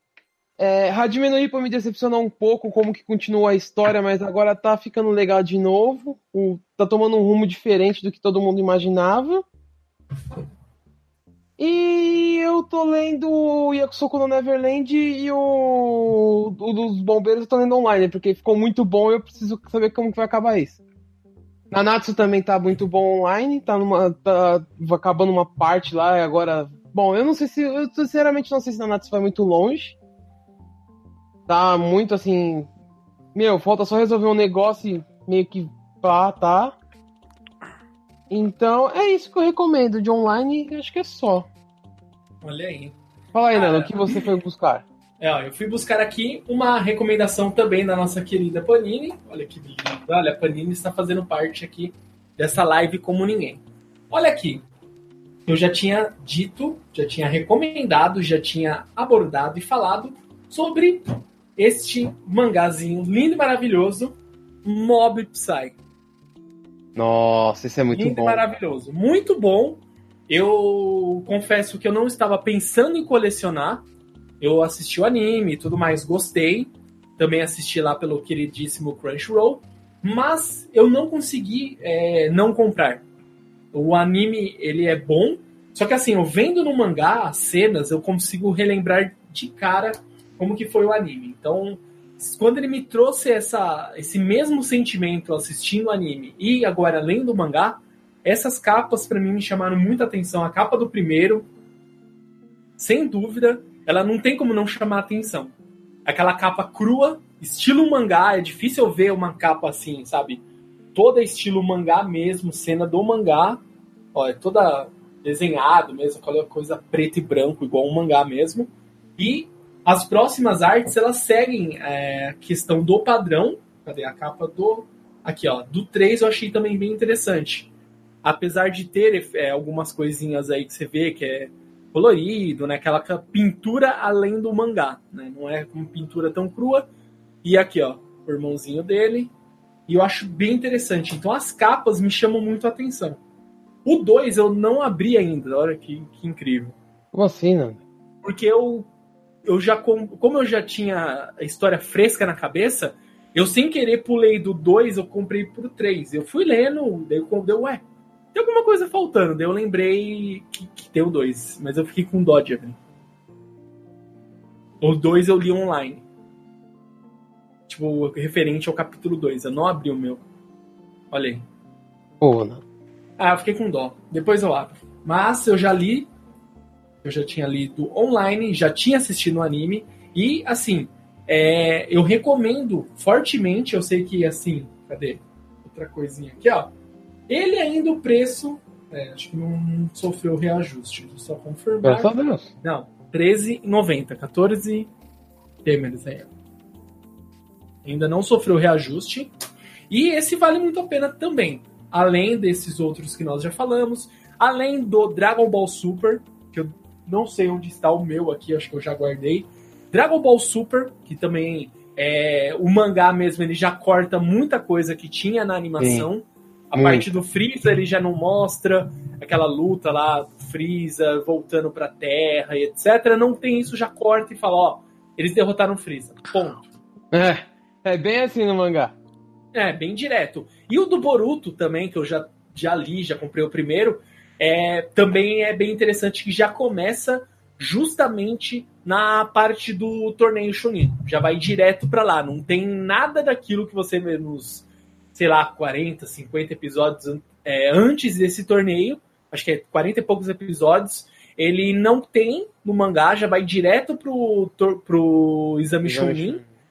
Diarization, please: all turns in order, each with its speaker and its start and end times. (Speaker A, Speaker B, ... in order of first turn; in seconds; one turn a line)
Speaker A: 0.6-9.4
Speaker A: 11.6-20.8
Speaker A: 21.7-30.0
Speaker A: 31.5-32.7
Speaker A: 33.3-36.8
Speaker A: 38.3-41.5
Speaker B: 42.4-42.9
Speaker A: 43.3-44.8
Speaker B: 43.5-44.3
Speaker B: 45.2-54.6
Speaker B: 55.5-65.8
Speaker A: 67.0-68.4
Speaker B: 67.9-73.8
Speaker B: 74.4-83.0
Speaker B: 83.7-101.5
Speaker B: 102.8-105.5
Speaker B: 106.0-110.4
Speaker B: 110.9-113.6
Speaker B: 114.1-127.7
Speaker B: 128.2-136.9
Speaker B: 137.4-139.3
Speaker B: 139.9-143.2
Speaker B: 143.8-146.7
Speaker A: 147.1-147.8
Speaker B: 148.2-148.9
Speaker B: 149.4-157.8
Speaker B: 158.3-162.8
Speaker B: 164.8-166.0
Speaker B: 167.7-170.2
Speaker B: 171.1-171.4
Speaker A: 172.2-172.6
Speaker B: 173.2-176.1
Speaker B: 177.0-186.7
Speaker B: 187.3-194.9
Speaker A: 191.8-192.5
Speaker B: 195.6-196.3
Speaker B: 197.8-199.3
Speaker B: 199.9-226.7
Speaker A: 215.8-216.1
Speaker A: 216.7-217.1
Speaker A: 227.1-228.9
Speaker B: 229.5-256.4
Speaker A: 255.8-256.5